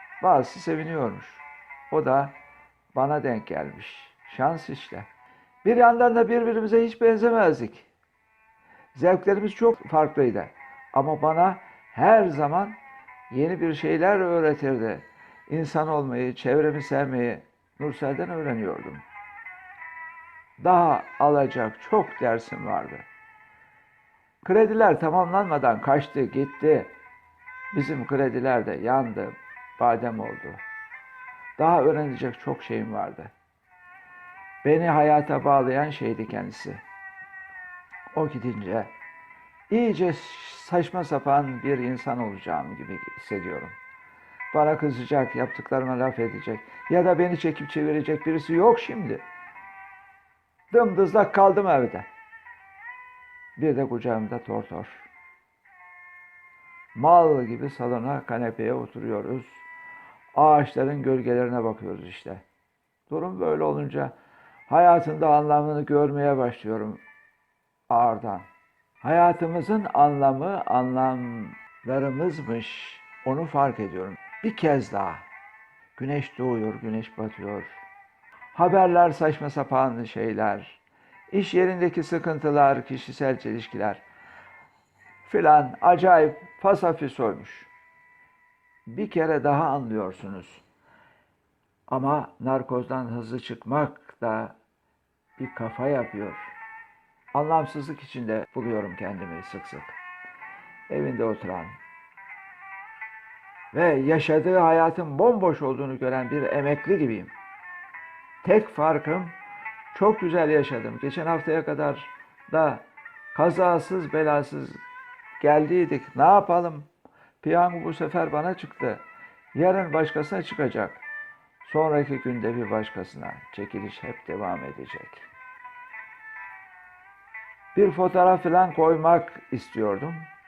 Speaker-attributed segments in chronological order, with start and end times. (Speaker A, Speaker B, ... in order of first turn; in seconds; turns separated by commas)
Speaker A: 0.2-2.3, Speaker A: 2.9-5.1, Speaker A: 5.6-7.9, Speaker A: 8.9-12.8, Speaker A: 13.3-19.0, Speaker A: 20.6-23.1, Speaker A: 24.4-26.9, Speaker A: 27.7-30.6, Speaker A: 31.6-33.3, Speaker A: 34.6-36.8, Speaker A: 38.1-38.9, Speaker A: 39.7-43.8, Speaker A: 44.5-49.2, Speaker A: 50.7-52.1, Speaker A: 53.6-55.1, Speaker A: 56.9-59.6, Speaker A: 60.3-62.4, Speaker A: 63.1-64.1, Speaker A: 64.7-67.0, Speaker A: 67.9-68.5, Speaker A: 69.0-75.2, Speaker A: 76.0-77.8, Speaker A: 78.5-84.0, Speaker A: 85.2-87.7, Speaker A: 88.9-90.6, Speaker A: 91.9-94.5, Speaker A: 95.4-96.5, Speaker A: 97.3-100.0, Speaker A: 100.9-101.8, Speaker A: 103.7-107.3, Speaker A: 108.4-109.3, Speaker A: 109.9-114.8, Speaker A: 115.4-116.9, Speaker A: 117.4-121.0, Speaker A: 121.6-125.3, Speaker A: 127.7-130.3